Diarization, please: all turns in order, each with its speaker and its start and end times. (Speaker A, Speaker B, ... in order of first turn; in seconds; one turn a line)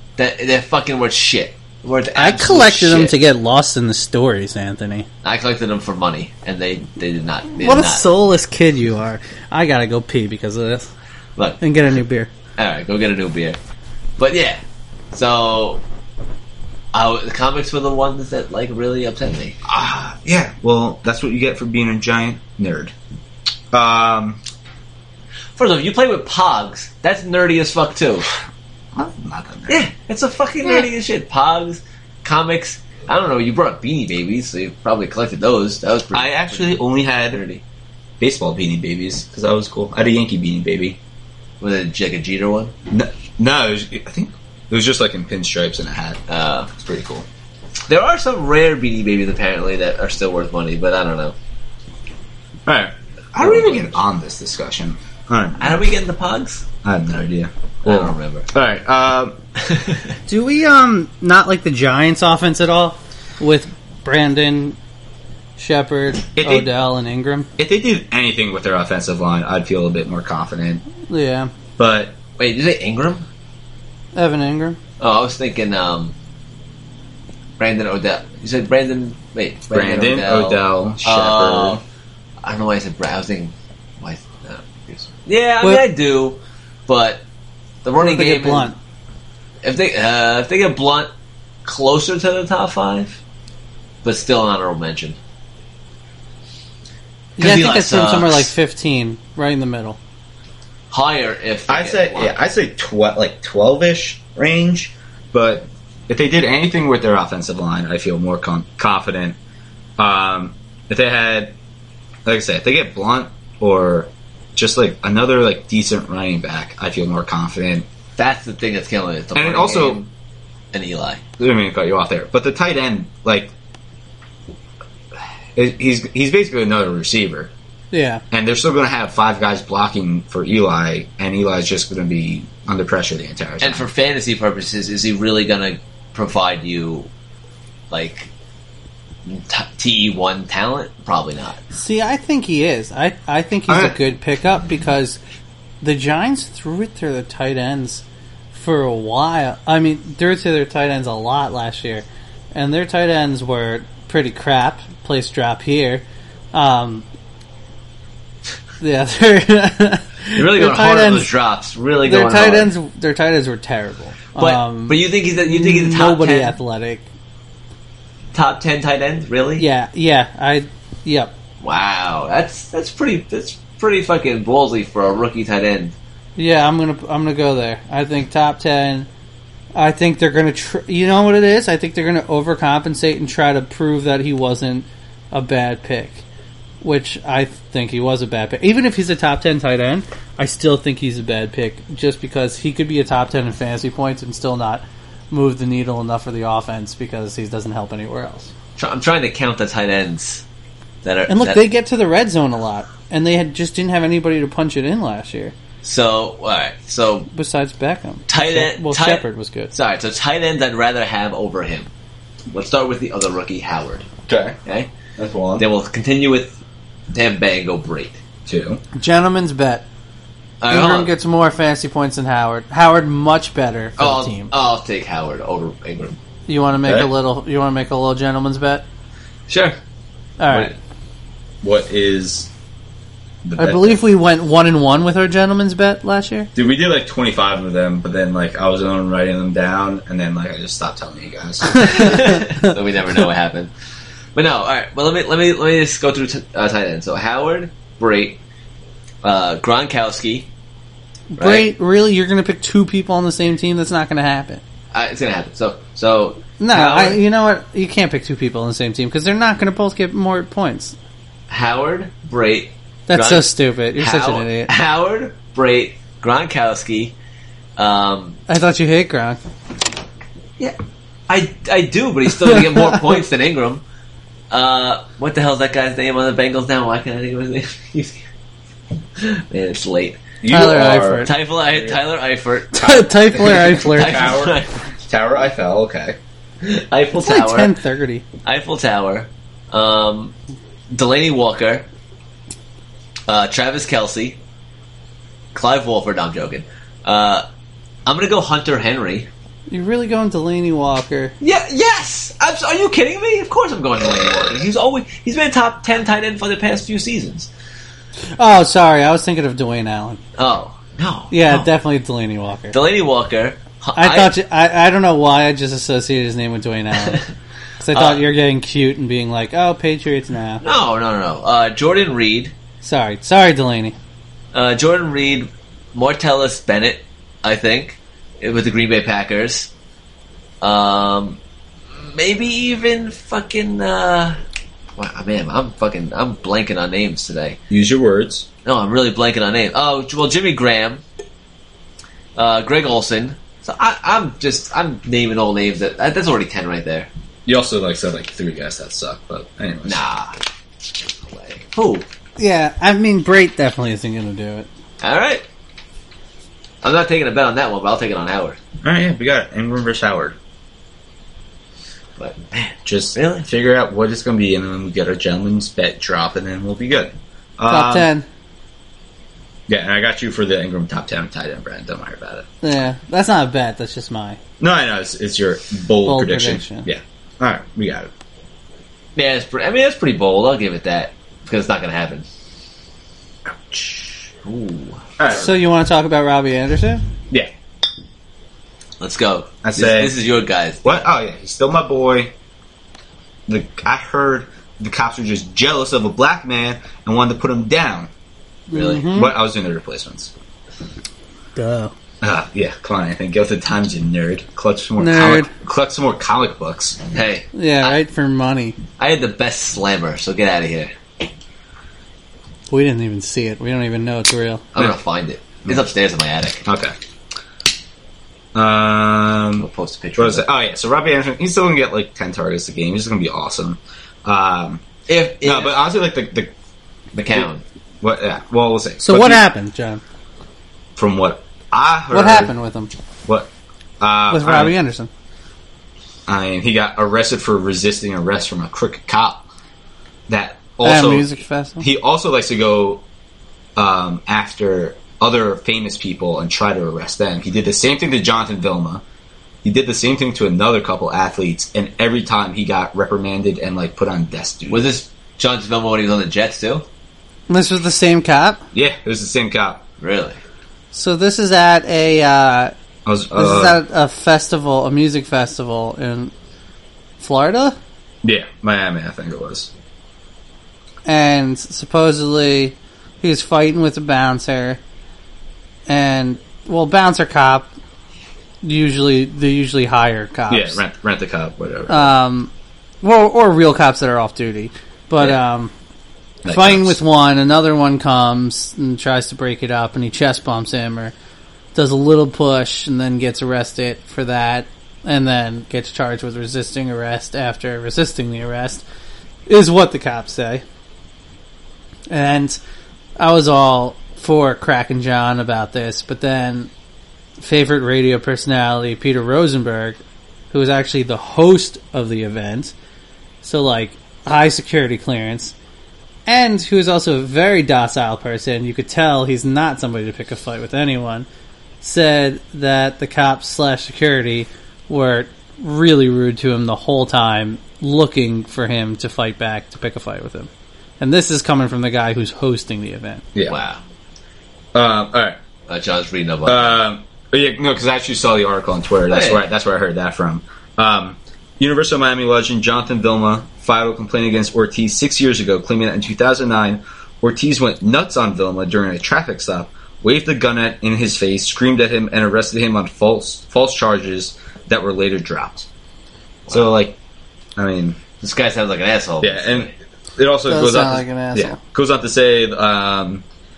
Speaker A: 0.2-3.1
Speaker B: 2.2-5.1
Speaker A: 5.2-8.1
Speaker B: 7.6-10.9
Speaker B: 11.6-12.3
Speaker A: 12.6-13.6
Speaker A: 14.2-14.6
Speaker A: 15.1-15.8
Speaker A: 16.9-19.6
Speaker C: 19.6-22.9
Speaker C: 23.7-24.4
Speaker A: 25.6-28.3
Speaker C: 28.9-29.8
Speaker A: 29.7-37.6
Speaker C: 36.1-37.4
Speaker C: 38.2-41.0
Speaker A: 41.6-42.8
Speaker C: 42.9-46.2
Speaker A: 46.3-46.7
Speaker C: 46.7-47.3
Speaker A: 47.9-51.4
Speaker C: 52.7-55.9
Speaker A: 53.4-54.0
Speaker A: 55.6-56.6
Speaker C: 56.8-59.4
Speaker A: 57.8-58.5
Speaker A: 59.6-60.1
Speaker B: 60.3-64.8
Speaker B: 65.6-67.5
Speaker C: 66.4-66.7
Speaker C: 67.6-70.8
Speaker B: 71.1-71.5
Speaker C: 71.8-72.2
Speaker A: 72.4-73.3
Speaker B: 74.2-74.8
Speaker A: 75.0-76.1
Speaker A: 77.6-81.8
Speaker C: 79.7-81.8
Speaker A: 82.4-87.2
Speaker A: 87.8-88.7
Speaker B: 88.0-88.8
Speaker A: 89.6-91.1
Speaker A: 91.7-93.2
Speaker A: 94.0-95.2
Speaker A: 97.4-98.5
Speaker B: 97.4-100.0
Speaker A: 100.9-102.4
Speaker C: 101.7-109.4
Speaker C: 110.0-111.5
Speaker C: 112.3-117.9
Speaker A: 118.2-120.1
Speaker C: 119.3-120.0
Speaker A: 120.7-121.2
Speaker C: 121.4-123.5
Speaker C: 125.5-127.5
Speaker B: 127.9-128.2
Speaker C: 128.3-133.9
Speaker A: 133.6-137.1
Speaker A: 137.9-138.3
Speaker A: 139.3-141.6
Speaker B: 141.7-145.2
Speaker C: 143.7-144.0
Speaker B: 145.8-157.1
Speaker B: 158.8-161.3
Speaker A: 160.4-162.7
Speaker B: 162.1-167.1
Speaker A: 164.4-166.6
Speaker A: 168.3-169.7
Speaker B: 169.6-171.3
Speaker A: 171.6-175.9
Speaker B: 176.4-179.1
Speaker B: 179.8-186.2
Speaker B: 186.8-198.5
Speaker A: 198.8-200.4
Speaker A: 201.0-201.6
Speaker B: 201.3-205.6
Speaker A: 205.8-207.3
Speaker B: 207.3-209.7
Speaker A: 208.3-211.9
Speaker A: 212.5-214.1
Speaker C: 214.3-214.6
Speaker A: 214.7-214.9
Speaker C: 215.2-215.7
Speaker A: 215.6-216.6
Speaker A: 217.1-218.2
Speaker C: 218.5-218.8
Speaker B: 219.0-219.8
Speaker A: 220.6-221.1
Speaker B: 220.7-224.5
Speaker A: 224.0-226.2
Speaker B: 226.5-228.8
Speaker C: 226.8-227.1
Speaker A: 229.5-229.8
Speaker B: 230.4-230.7
Speaker C: 231.6-232.5
Speaker C: 233.4-234.0
Speaker B: 233.6-236.5
Speaker C: 236.6-242.0
Speaker B: 241.7-242.7
Speaker A: 241.8-243.7
Speaker A: 244.3-248.4
Speaker A: 249.2-250.5
Speaker B: 251.3-254.6
Speaker A: 251.4-251.7
Speaker A: 254.9-257.2
Speaker B: 256.6-261.0
Speaker A: 261.5-267.1
Speaker B: 263.1-264.7
Speaker A: 267.8-268.4
Speaker B: 268.5-269.4
Speaker A: 271.3-273.8
Speaker A: 274.5-278.2
Speaker A: 279.2-280.2
Speaker C: 280.4-282.0
Speaker B: 280.5-281.3
Speaker A: 281.2-282.9
Speaker B: 282.7-284.4
Speaker C: 282.8-286.2
Speaker A: 283.5-284.8
Speaker A: 286.6-287.8
Speaker B: 287.1-288.2
Speaker A: 288.4-290.4
Speaker A: 290.9-291.9
Speaker A: 293.3-294.4
Speaker A: 295.5-297.4
Speaker A: 298.1-299.3
Speaker B: 299.7-301.3
Speaker A: 301.4-307.5
Speaker B: 308.4-310.2
Speaker A: 310.4-311.7
Speaker B: 311.3-312.8
Speaker A: 312.7-314.3
Speaker B: 314.0-317.2
Speaker A: 317.0-317.3
Speaker B: 317.8-320.6
Speaker A: 317.9-318.2
Speaker A: 320.6-322.5
Speaker B: 322.8-324.0
Speaker A: 324.5-329.7
Speaker A: 330.6-331.4
Speaker A: 331.9-334.4
Speaker A: 335.0-337.6
Speaker C: 337.7-338.5
Speaker A: 338.6-341.0
Speaker A: 342.4-347.1
Speaker C: 347.5-350.0
Speaker A: 349.9-350.4
Speaker A: 351.2-352.1
Speaker B: 352.4-354.7
Speaker A: 355.0-355.4
Speaker A: 356.8-358.6
Speaker C: 358.8-360.4
Speaker A: 362.2-363.5
Speaker C: 362.9-368.1
Speaker B: 367.7-368.3
Speaker C: 369.7-372.5
Speaker B: 372.6-374.4
Speaker C: 374.6-378.1
Speaker B: 376.1-376.9
Speaker A: 379.2-382.3
Speaker C: 383.7-384.3
Speaker A: 384.4-385.1
Speaker C: 385.2-385.5
Speaker B: 385.3-387.0
Speaker A: 389.0-391.0
Speaker C: 389.6-390.1
Speaker C: 390.8-392.3
Speaker C: 393.5-398.1
Speaker B: 398.7-399.3
Speaker A: 398.7-399.1
Speaker C: 399.1-400.3
Speaker B: 401.6-401.9
Speaker C: 402.2-407.0
Speaker B: 405.0-405.5
Speaker A: 407.1-408.0
Speaker B: 407.5-408.8
Speaker A: 409.0-410.9
Speaker B: 412.7-414.6
Speaker A: 414.8-416.7
Speaker C: 416.6-416.9
Speaker C: 418.6-424.8
Speaker A: 419.6-420.5
Speaker A: 425.1-425.8
Speaker C: 425.4-426.5
Speaker A: 427.1-427.6
Speaker C: 428.0-429.4
Speaker B: 429.0-430.0
Speaker C: 431.0-432.5
Speaker B: 432.1-432.9
Speaker C: 433.3-434.7
Speaker B: 434.3-435.1
Speaker C: 436.3-439.5
Speaker C: 440.3-443.0
Speaker B: 440.8-441.9
Speaker C: 443.8-449.0
Speaker C: 449.6-454.9
Speaker A: 454.7-456.9
Speaker B: 457.5-458.6
Speaker C: 458.7-459.8
Speaker A: 460.0-460.4
Speaker B: 460.9-462.7
Speaker C: 463.1-463.8
Speaker B: 463.4-466.3
Speaker B: 467.2-467.8
Speaker C: 468.2-469.7
Speaker B: 471.1-474.8
Speaker B: 475.9-477.7
Speaker B: 478.6-480.8
Speaker C: 480.5-482.1
Speaker B: 481.9-482.5
Speaker B: 483.0-485.7
Speaker C: 486.4-487.0
Speaker B: 486.5-491.1
Speaker B: 491.8-498.8
Speaker B: 499.5-500.6
Speaker B: 502.1-502.6
Speaker B: 503.2-506.7
Speaker B: 507.4-510.0
Speaker B: 510.5-512.7
Speaker B: 513.4-515.5
Speaker B: 516.3-521.3
Speaker B: 521.8-533.2
Speaker A: 533.5-533.8
Speaker C: 534.7-535.4
Speaker A: 535.7-536.8
Speaker C: 536.5-555.7
Speaker A: 539.1-539.4
Speaker C: 556.5-557.0
Speaker C: 557.6-558.0
Speaker A: 558.2-559.7
Speaker C: 559.2-563.2
Speaker B: 560.5-561.6